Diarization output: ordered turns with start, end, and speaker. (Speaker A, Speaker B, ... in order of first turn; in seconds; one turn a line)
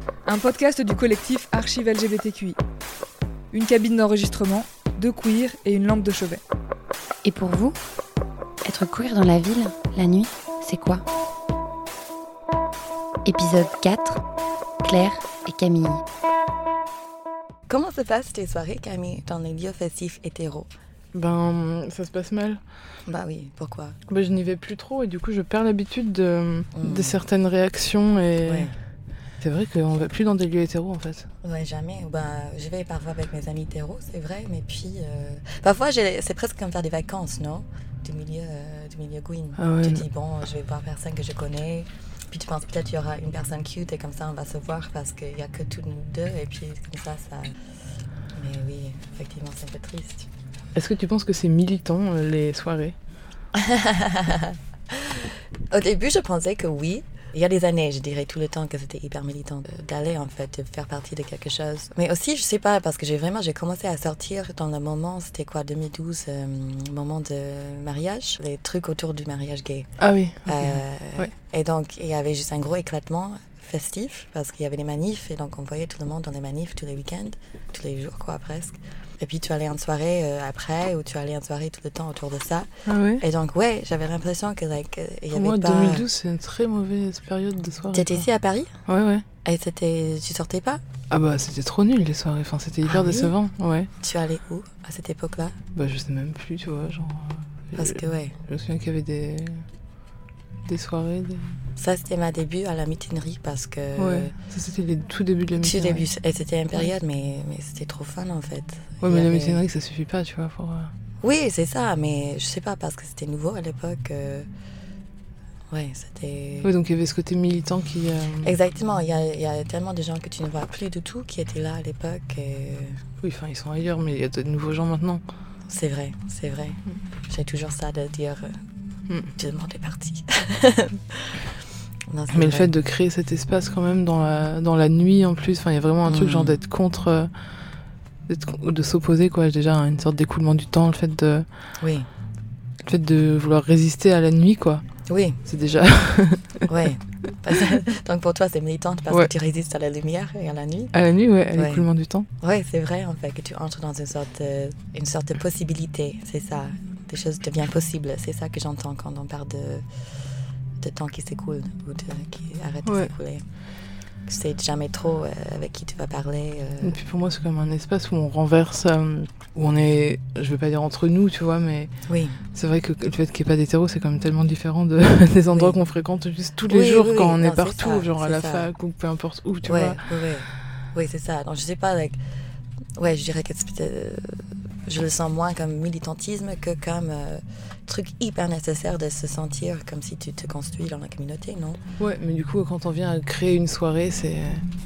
Speaker A: 0.2-2.6
Speaker A: 3.5-6.4
Speaker B: 7.2-7.8
Speaker B: 8.6-11.0
Speaker B: 13.2-14.2
Speaker B: 14.8-16.0
Speaker C: 17.7-20.7
Speaker D: 21.1-22.6
Speaker C: 23.1-24.0
Speaker D: 24.1-28.7
Speaker C: 26.7-27.2
Speaker C: 28.4-28.7
Speaker D: 29.4-31.3
Speaker C: 31.4-47.6
Speaker D: 39.6-40.0
Speaker C: 48.3-50.3
Speaker D: 50.7-53.0
Speaker C: 53.5-69.9
Speaker D: 70.0-71.3
Speaker C: 70.5-86.0
Speaker D: 82.8-83.2
Speaker D: 85.3-88.3
Speaker C: 87.9-88.7
Speaker D: 88.9-89.2
Speaker C: 89.4-90.8
Speaker D: 91.1-93.9
Speaker C: 92.8-93.3
Speaker C: 94.0-95.6
Speaker D: 95.7-99.7
Speaker C: 97.7-98.3
Speaker D: 100.6-101.6
Speaker C: 101.8-104.3
Speaker D: 104.0-106.1
Speaker C: 105.6-109.6
Speaker D: 109.0-110.9
Speaker C: 111.2-114.5
Speaker C: 115.7-116.7
Speaker D: 116.6-118.5
Speaker C: 118.4-123.0
Speaker D: 123.2-125.2
Speaker C: 125.7-128.6
Speaker C: 129.3-131.4
Speaker C: 132.1-132.7
Speaker D: 132.3-137.3
Speaker C: 136.1-136.6
Speaker D: 138.3-141.4
Speaker C: 141.8-142.1
Speaker D: 142.8-144.8
Speaker C: 145.1-145.4
Speaker D: 145.4-146.7
Speaker C: 146.7-150.9
Speaker D: 150.9-152.3
Speaker C: 151.5-151.8
Speaker C: 152.4-159.8
Speaker C: 160.8-163.4
Speaker D: 162.8-163.1
Speaker C: 164.3-167.0
Speaker D: 166.8-171.9
Speaker C: 172.1-172.4
Speaker D: 172.5-180.0
Speaker C: 176.7-178.7
Speaker C: 179.6-182.2
Speaker C: 183.0-191.8
Speaker D: 192.0-194.6